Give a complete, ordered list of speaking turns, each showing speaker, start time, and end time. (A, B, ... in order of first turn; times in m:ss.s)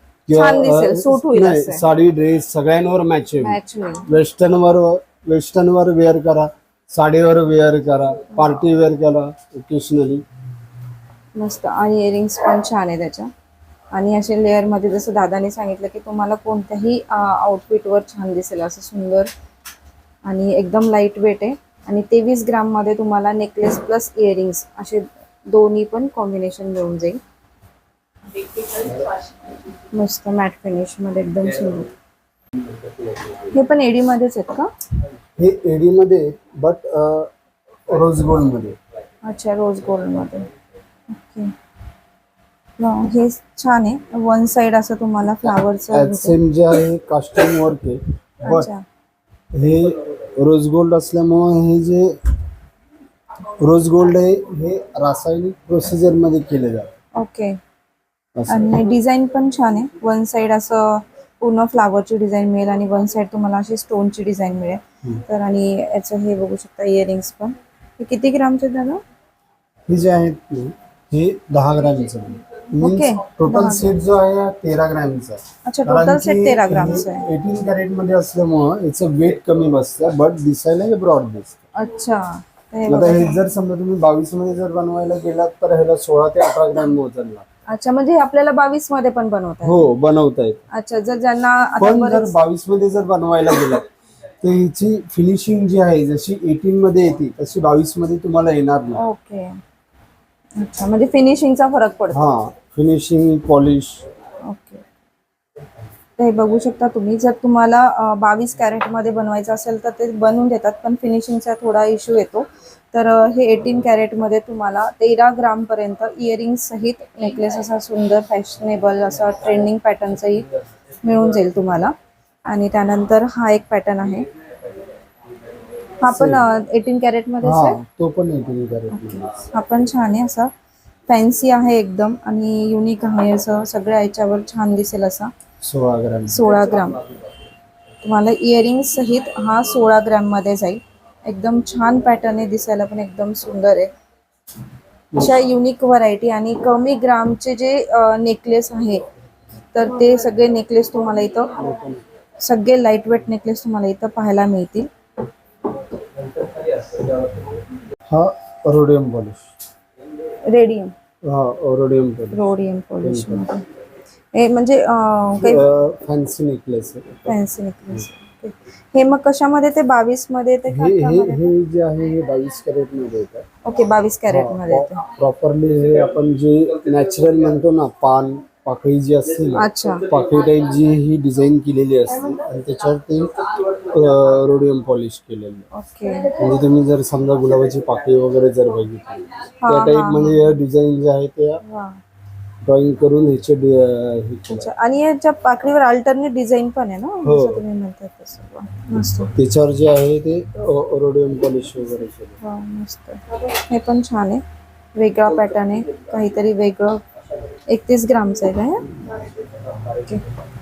0:00.3-0:10.2 A
0:00.3-0:01.8 B
0:03.4-0:04.1 B
0:11.4-0:13.3 B
0:13.9-0:19.3 B
0:20.2-0:27.2 B
0:29.9-0:31.9 B
0:33.5-0:34.7 B
0:35.4-0:37.3 A
0:37.9-0:38.8 A
0:39.2-0:40.5 B
0:41.1-0:41.5 B
0:42.8-0:46.4 B
0:45.4-0:48.7 A
0:48.4-0:48.8 B
0:49.5-0:52.2 A
0:53.6-0:56.9 A
0:57.2-0:57.6 B
0:58.4-0:58.7 A
0:58.5-1:09.0 B
1:09.9-1:21.6 A
1:12.8-1:13.9 B
1:15.6-1:17.2 B
1:21.8-1:23.4 B
1:22.9-1:27.4 A
1:27.7-1:29.9 B
1:29.6-1:30.6 A
1:30.7-1:32.3 B
1:31.8-1:33.9 A
1:34.4-1:39.0 A
1:39.0-1:39.6 B
1:40.6-1:42.2 B
1:42.1-1:44.0 A
1:44.4-1:44.8 B
1:46.2-2:00.5 B
2:01.0-2:01.9 B
2:02.5-2:04.3 B
2:06.0-2:07.8 B
2:06.1-2:06.4 A
2:07.4-2:09.3 A
2:08.9-2:10.5 B
2:11.1-2:15.3 B
2:15.6-2:16.5 A
2:16.3-2:17.0 B
2:18.0-2:23.9 B
2:25.1-2:25.4 A
2:25.2-2:29.0 B
2:29.7-2:31.6 B
2:31.6-2:32.0 A
2:32.4-2:34.9 B
2:38.1-2:39.4 A
2:40.4-2:40.9 B
2:41.2-2:42.5 A
2:42.3-2:43.6 B
2:43.0-2:43.4 A
2:44.3-2:45.6 B
2:45.4-2:47.4 A
2:47.2-2:51.5 B
2:50.7-2:53.4 A
2:53.6-2:55.0 B
2:54.3-3:05.7 A
2:59.6-3:00.0 B
3:05.7-3:06.3 B
3:06.4-3:11.6 A
3:09.6-3:10.5 B
3:11.6-3:12.0 B
3:12.6-3:14.7 A
3:14.5-3:19.3 B
3:17.2-3:17.6 A
3:19.3-3:22.4 A
3:22.4-3:24.4 B
3:25.0-3:27.0 B
3:27.7-3:28.9 B
3:29.9-3:30.2 B